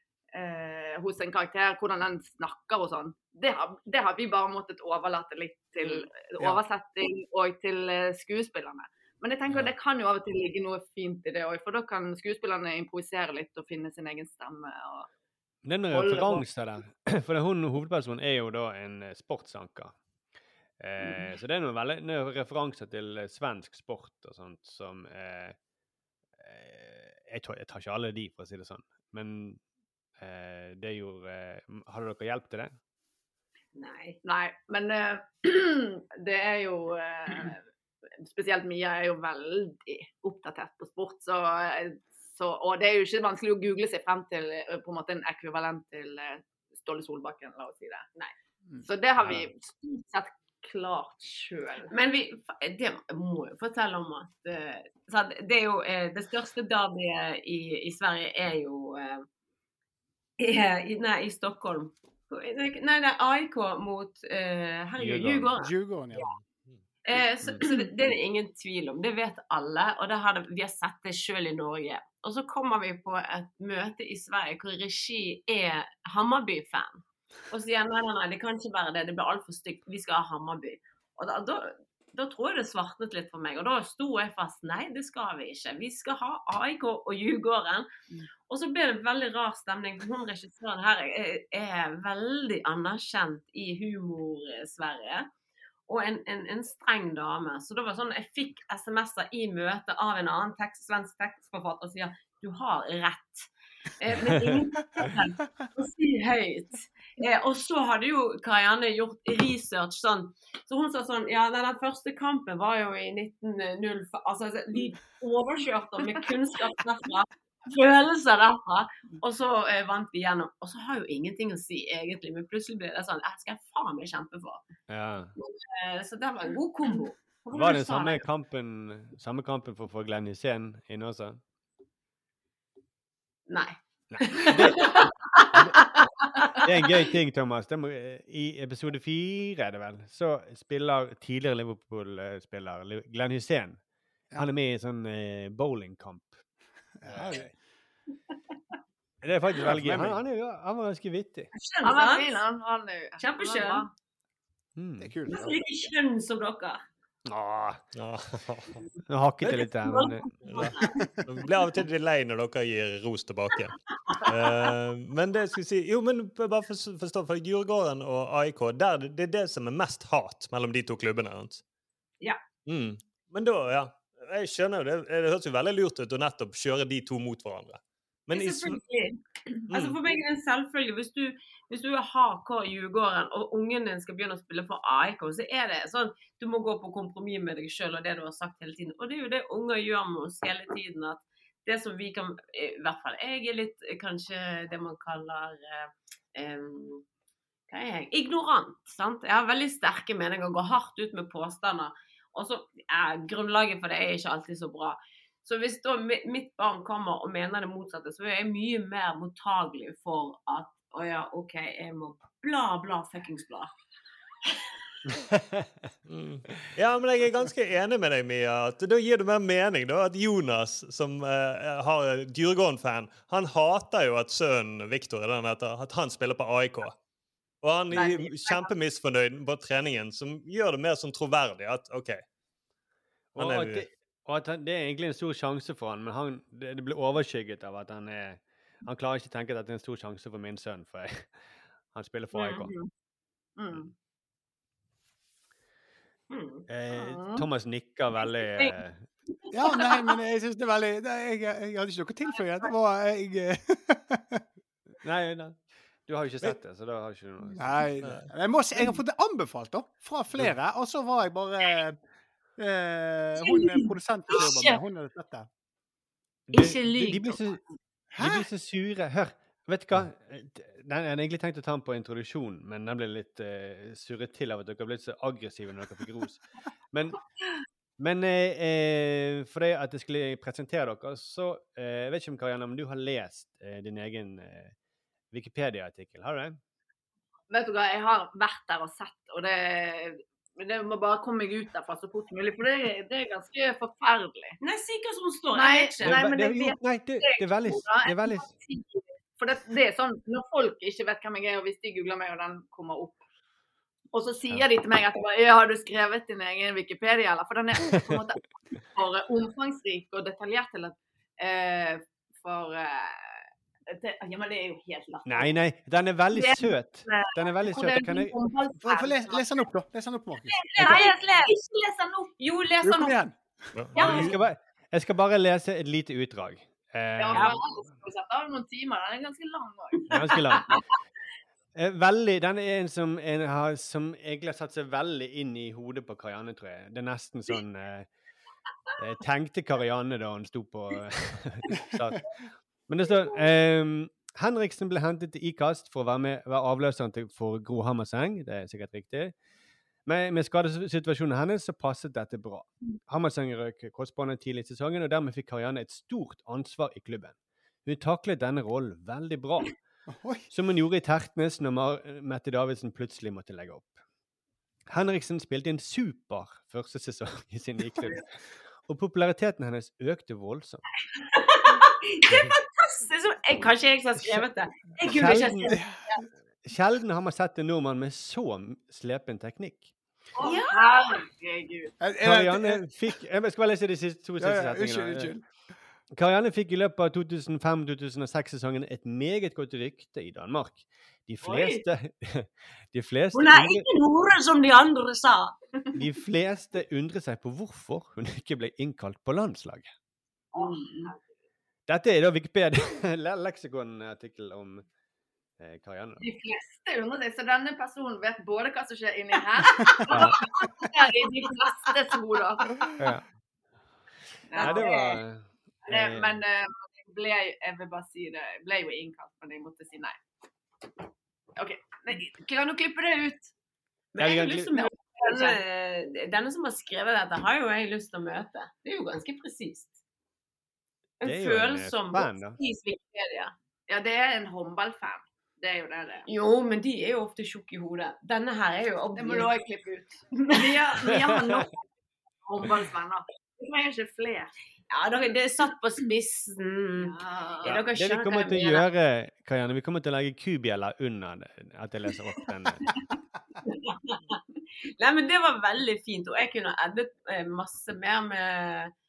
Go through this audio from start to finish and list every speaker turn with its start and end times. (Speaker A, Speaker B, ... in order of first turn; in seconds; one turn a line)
Speaker A: 0.3-15.1
Speaker B: 15.7-20.0
Speaker A: 15.9-16.5
Speaker B: 20.8-25.6
Speaker A: 21.0-21.3
Speaker B: 26.4-29.6
Speaker B: 30.2-32.8
Speaker C: 33.8-34.2
Speaker A: 34.2-37.6
Speaker A: 38.2-48.1
Speaker A: 48.8-51.9
Speaker C: 51.9-59.3
Speaker C: 60.4-66.2
Speaker B: 65.0-65.5
Speaker D: 65.6-66.3
Speaker C: 67.0-87.9
Speaker C: 88.5-95.3
Speaker C: 95.9-124.7
Speaker B: 124.9-125.3
Speaker C: 125.4-128.2
Speaker B: 127.5-131.4
Speaker C: 133.5-136.6
Speaker B: 134.1-134.9
Speaker B: 135.5-135.8
Speaker B: 136.6-143.8
Speaker B: 144.4-146.4
Speaker D: 147.0-147.5
Speaker B: 147.1-147.4
Speaker B: 149.2-151.5
Speaker D: 149.6-150.2
Speaker C: 151.6-152.4
Speaker A: 151.8-153.9
Speaker C: 153.2-153.9
Speaker B: 154.8-155.2
Speaker D: 155.0-155.6
Speaker C: 155.3-156.8
Speaker B: 157.3-157.8
Speaker E: 157.9-158.8
Speaker B: 159.1-160.7
Speaker C: 159.5-161.0
Speaker E: 160.4-171.6
Speaker E: 172.7-178.8
Speaker C: 178.3-197.0
Speaker E: 179.7-180.0
Speaker C: 197.7-213.7
Speaker B: 215.1-215.7
Speaker E: 216.1-227.0
Speaker E: 227.6-232.2
Speaker A: 227.9-228.7
Speaker B: 233.3-241.4
Speaker E: 233.4-233.9
Speaker B: 241.9-242.7
Speaker A: 242.4-242.9
Speaker A: 243.6-243.9
Speaker C: 246.3-246.7
Speaker B: 246.7-249.1
Speaker A: 246.9-247.5
Speaker D: 249.5-254.4
Speaker B: 255.0-257.9
Speaker D: 257.6-262.0
Speaker D: 262.6-265.5
Speaker C: 263.8-264.7
Speaker B: 266.5-267.6
Speaker C: 266.5-267.4
Speaker D: 268.1-268.5
Speaker B: 268.2-277.2
Speaker B: 278.0-284.7
Speaker B: 285.3-286.6
Speaker A: 287.5-294.6
Speaker C: 294.6-296.2
Speaker A: 295.6-303.2
Speaker B: 296.0-298.5
Speaker A: 304.1-315.5
Speaker B: 307.9-308.2
Speaker B: 315.3-318.4
Speaker A: 316.4-319.6
Speaker D: 318.8-320.6
Speaker C: 320.5-321.6
Speaker A: 320.8-322.3
Speaker C: 322.4-323.2
Speaker D: 322.8-323.6
Speaker E: 323.8-324.4
Speaker A: 324.0-324.3
Speaker B: 324.0-327.6
Speaker A: 327.2-330.4
Speaker B: 330.1-330.7
Speaker B: 331.8-338.1
Speaker B: 339.0-349.3
Speaker B: 350.1-359.8
Speaker D: 360.1-360.5
Speaker B: 360.5-364.0
Speaker B: 364.9-370.8
Speaker C: 371.4-376.2
Speaker B: 374.2-374.5
Speaker B: 375.0-375.8
Speaker D: 375.7-376.0
Speaker B: 376.6-379.9
Speaker C: 380.4-380.9
Speaker A: 380.4-381.9
Speaker D: 382.0-382.9
Speaker B: 382.2-385.3
Speaker D: 384.4-385.5
Speaker B: 386.1-393.9
Speaker C: 391.4-391.8
Speaker C: 393.3-395.6
Speaker B: 395.9-399.9
Speaker A: 400.5-401.1
Speaker C: 400.6-401.2
Speaker B: 401.9-404.9
Speaker B: 405.6-406.2
Speaker A: 406.2-412.9
Speaker B: 410.1-410.4
Speaker B: 413.0-413.2
Speaker A: 414.5-414.9
Speaker C: 414.5-415.2
Speaker B: 414.6-416.4
Speaker A: 415.9-420.2
Speaker A: 421.6-423.5
Speaker C: 424.1-429.9
Speaker B: 424.2-424.7
Speaker A: 424.4-425.6
Speaker C: 431.2-433.5
Speaker B: 431.2-432.6
Speaker A: 433.9-436.3
Speaker C: 436.3-439.5
Speaker A: 439.2-441.9
Speaker C: 440.5-441.1
Speaker B: 441.1-441.6
Speaker A: 442.5-444.5
Speaker C: 444.9-448.8
Speaker A: 447.0-447.8
Speaker B: 447.6-452.9
Speaker C: 453.7-454.4
Speaker C: 455.0-458.9